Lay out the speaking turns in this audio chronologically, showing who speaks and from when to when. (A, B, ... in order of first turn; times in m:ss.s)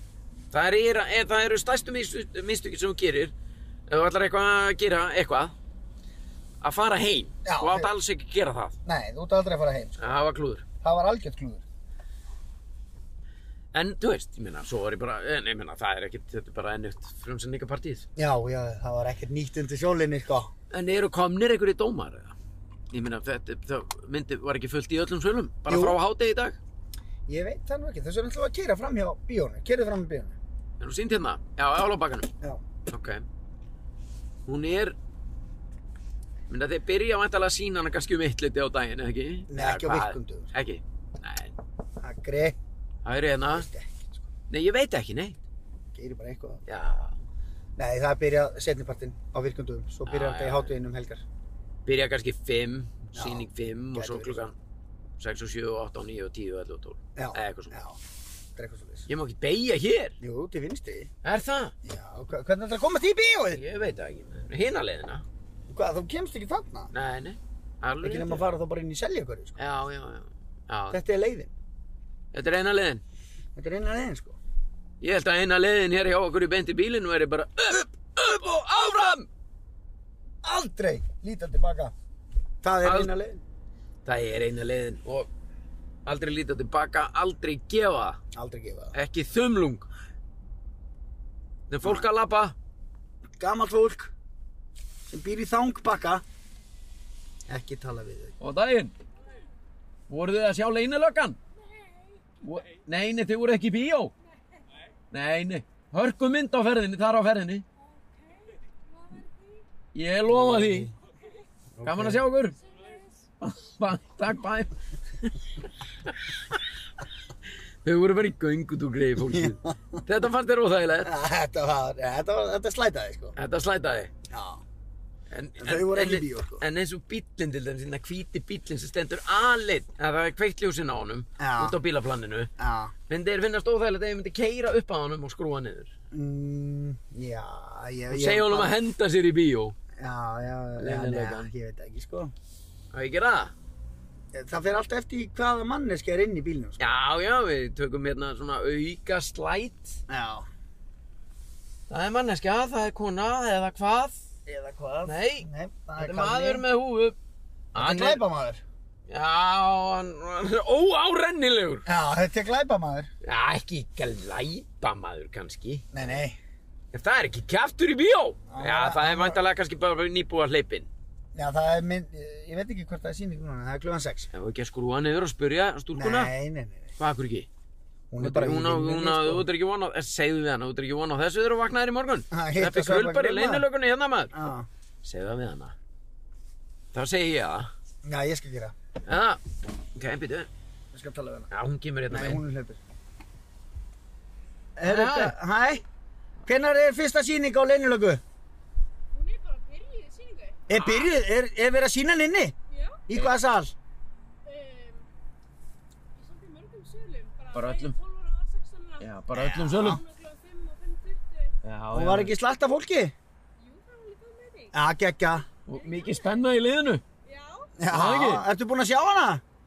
0:00.5-0:03.3 A
0:03.9-0:05.5 A
0:06.6-0:08.8 A
0:07.4-0:07.9 B
0:08.8-0:10.2 B
0:10.0-0:10.6 A
0:10.8-0:11.6 B
0:13.7-0:18.1 A
0:18.2-0:20.5 B
0:20.7-0:22.3 A
0:22.9-0:26.6 A
0:25.7-0:26.0 B
0:27.3-0:30.3 B
0:30.8-0:32.3 A
0:32.9-0:33.2 A
0:34.5-0:35.0 A
0:36.5-0:41.5 A
0:39.5-0:40.5 B
0:42.0-0:42.6 B
0:43.0-0:43.7 A
0:43.5-0:44.2 B
0:44.5-0:45.4 A
0:45.9-0:46.6 B
0:46.7-0:47.1 A
0:47.8-0:51.2 B
0:50.1-0:50.7 A
0:51.8-0:54.5 A
0:53.1-0:54.4 B
0:55.2-0:57.7 A
0:57.2-0:58.0 B
0:58.6-0:59.1 B
0:59.1-1:00.2 A
1:00.2-1:01.1 B
1:01.2-1:01.7 A
1:01.8-1:03.6 B
1:03.5-1:05.2 A
1:05.7-1:06.9 B
1:06.9-1:08.5 A
1:08.0-1:09.6 B
1:09.6-1:11.0 A
1:10.9-1:11.5 B
1:12.3-1:13.0 A
1:13.6-1:14.4 B
1:15.0-1:19.3 A
1:20.4-1:21.9 B
1:22.6-1:23.4 B
1:22.8-1:23.1 A
1:24.0-1:25.3 A
1:26.0-1:28.2 A
1:28.3-1:28.9 B
1:28.9-1:29.9 A
1:31.7-1:32.5 A
1:33.4-1:34.1 B
1:35.1-1:36.2 B
1:37.5-1:38.3 B
1:38.4-1:38.9 A
1:39.2-1:39.5 C
1:40.1-1:41.4 A
1:41.6-1:42.2 C
1:42.4-1:44.1 A
1:45.1-1:47.6 A
1:47.8-1:49.6 C
1:49.9-1:50.9 A
1:50.3-1:50.9 B
1:51.8-1:52.2 B
1:51.8-1:52.6 A
1:52.6-1:53.3 C
1:53.4-1:55.4 A
1:56.0-1:56.3 A
1:57.8-2:01.1 A
1:59.2-2:00.0 B
2:01.0-2:03.4 B
2:03.4-2:04.1 A
2:04.3-2:04.6 B
2:05.3-2:12.5 A
2:05.6-2:06.6 B
2:11.4-2:11.8 B
2:12.6-2:12.9 B
2:13.1-2:15.9 A
2:16.1-2:18.7 B
2:18.1-2:19.8 A
2:19.9-2:22.3 B
2:20.8-2:21.5 A
2:22.9-2:23.5 A
2:24.3-2:26.9 B
2:26.8-2:30.0 A
2:30.1-2:30.5 B
2:31.9-2:34.2 A
2:34.4-2:36.6 B
2:35.0-2:37.1 A
2:37.7-2:38.2 A
2:37.7-2:38.6 B
2:39.1-2:41.8 A
2:41.8-2:43.1 B
2:43.2-2:45.9 A
2:45.9-2:46.4 B
2:46.9-2:50.9 A
2:48.5-2:49.4 B
2:51.3-2:54.3 B
2:54.3-2:56.3 A
2:55.9-2:56.9 B
2:57.0-2:57.5 A
2:58.1-2:59.4 B
2:58.2-3:04.4 A
3:02.3-3:03.6 B
3:04.3-3:04.7 B
3:05.0-3:05.7 A
3:06.9-3:07.7 A
3:08.0-3:08.7 B
3:09.0-3:09.4 A
3:09.9-3:10.5 A
3:10.9-3:11.5 B
3:11.5-3:12.4 A
3:12.1-3:12.8 B
3:14.8-3:15.8 B
3:14.8-3:15.4 A
3:16.4-3:18.2 B
3:19.1-3:20.6 C
3:20.7-3:22.5 B
3:20.7-3:21.1 A
3:22.7-3:23.0 C
3:23.1-3:23.7 B
3:24.4-3:25.1 C
3:26.1-3:29.1 C
3:27.5-3:28.0 A
3:29.0-3:30.0 A
3:29.3-3:30.0 B
3:29.8-3:31.5 C
3:31.6-3:32.3 A
3:31.9-3:33.1 B
3:33.6-3:34.7 C
3:34.7-3:35.4 B
3:35.7-3:37.0 A
3:35.7-3:36.4 C
3:37.2-3:37.7 C
3:37.8-3:39.4 B
3:37.9-3:38.4 A